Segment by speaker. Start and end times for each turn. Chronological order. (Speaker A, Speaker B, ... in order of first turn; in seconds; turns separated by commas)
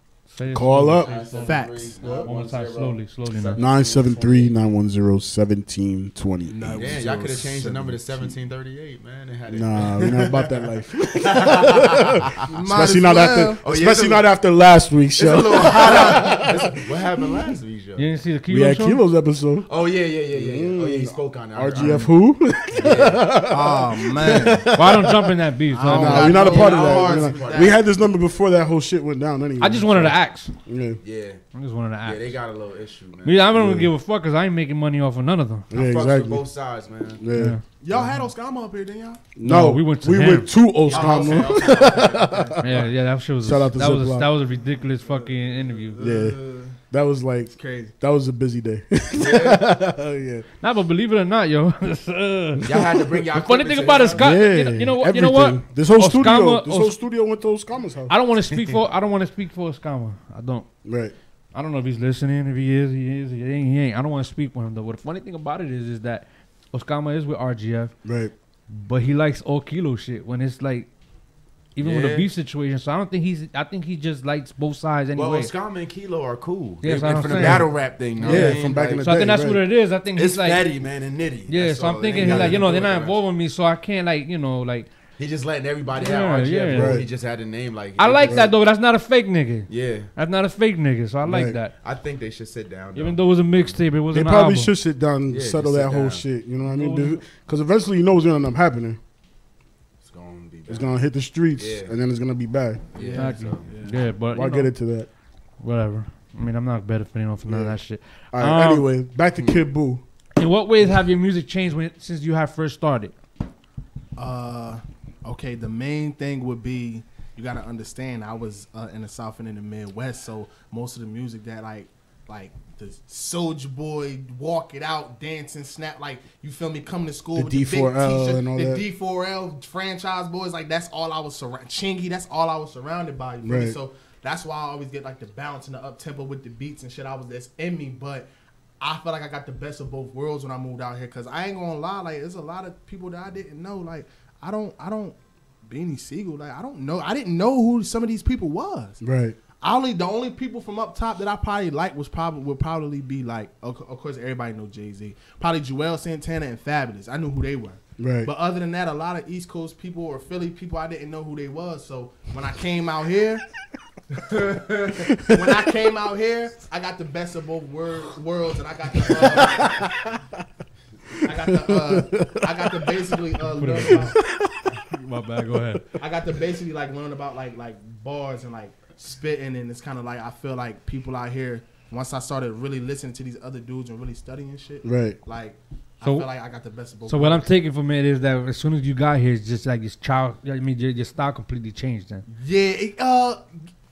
Speaker A: 0.3-3.6, Speaker B: 0.5-1.1, Speaker C: 1.0-4.5, Speaker D: 1.4-2.0, Speaker B: 3.5-7.9, Speaker D: 6.5-8.0, Speaker C: 6.6-10.5, Speaker B: 9.5-16.6, Speaker C: 11.1-12.4, Speaker D: 12.5-13.6, Speaker C: 13.6-14.3, Speaker C: 15.2-18.1, Speaker A: 17.9-19.0, Speaker B: 18.5-19.7, Speaker C: 19.6-22.1, Speaker B: 20.3-31.0, Speaker C: 22.8-23.3, Speaker D: 23.5-24.7, Speaker A: 24.8-26.3, Speaker D: 25.7-27.8, Speaker C: 26.1-27.8, Speaker A: 29.6-30.5, Speaker C: 31.0-31.4, Speaker A: 31.5-32.4, Speaker C: 32.0-33.5, Speaker A: 33.2-35.7, Speaker B: 33.5-33.9, Speaker B: 35.7-36.4, Speaker C: 35.7-37.2, Speaker B: 37.2-38.1, Speaker A: 37.4-37.6, Speaker D: 37.8-39.2, Speaker B: 39.4-42.9, Speaker A: 39.4-40.5, Speaker C: 40.9-42.8, Speaker D: 40.9-42.6, Speaker A: 42.6-46.0, Speaker B: 43.4-44.3, Speaker D: 45.0-46.8, Speaker B: 46.0-50.4, Speaker D: 47.5-47.9, Speaker C: 49.2-49.6, Speaker A: 50.6-52.6, Speaker C: 52.6-54.2, Speaker B: 52.7-53.0, Speaker A: 53.3-57.0, Speaker B: 54.2-58.1, Speaker A: 58.1-60.7, Speaker B: 60.9-61.1, Speaker A: 61.5-67.9, Speaker B: 68.0-68.3, Speaker A: 68.7-70.9, Speaker A: 71.8-75.5, Speaker C: 71.8-72.3, Speaker C: 75.2-79.5, Speaker A: 76.8-80.7, Speaker B: 77.3-79.6, Speaker C: 80.1-83.2, Speaker A: 81.5-84.9, Speaker B: 82.2-82.6, Speaker C: 85.2-88.5, Speaker A: 85.9-87.0, Speaker B: 86.7-87.0, Speaker A: 88.0-91.7, Speaker B: 88.2-88.5, Speaker C: 89.7-90.1, Speaker B: 91.2-91.6, Speaker C: 91.8-93.8, Speaker A: 92.9-94.7, Speaker B: 94.1-99.0, Speaker C: 95.3-96.2, Speaker A: 96.6-97.2, Speaker C: 100.0-100.9, Speaker B: 100.7-102.8, Speaker C: 101.6-101.9, Speaker C: 102.9-103.8, Speaker D: 103.0-104.0, Speaker A: 103.1-104.7, Speaker B: 104.3-105.1, Speaker A: 105.6-108.9, Speaker B: 107.5-107.8, Speaker B: 108.3-110.0, Speaker A: 110.4-113.1, Speaker D: 114.2-138.3, Speaker B: 127.3-128.8, Speaker B: 133.4-133.8, Speaker D: 138.8-149.0, Speaker B: 149.0-149.4, Speaker D: 149.6-163.4, Speaker B: 158.0-158.3, Speaker D: 164.2-169.8, Speaker B: 165.1-165.5, Speaker B: 169.2-170.2, Speaker D: 171.2-174.2, Speaker B: 171.6-172.7, Speaker A: 173.6-174.2, Speaker B: 173.8-174.8, Speaker A: 174.7-175.8, Speaker D: 176.0-187.5, Speaker B: 184.8-185.2, Speaker A: 186.0-186.3, Speaker A: 187.1-192.2, Speaker D: 192.3-193.5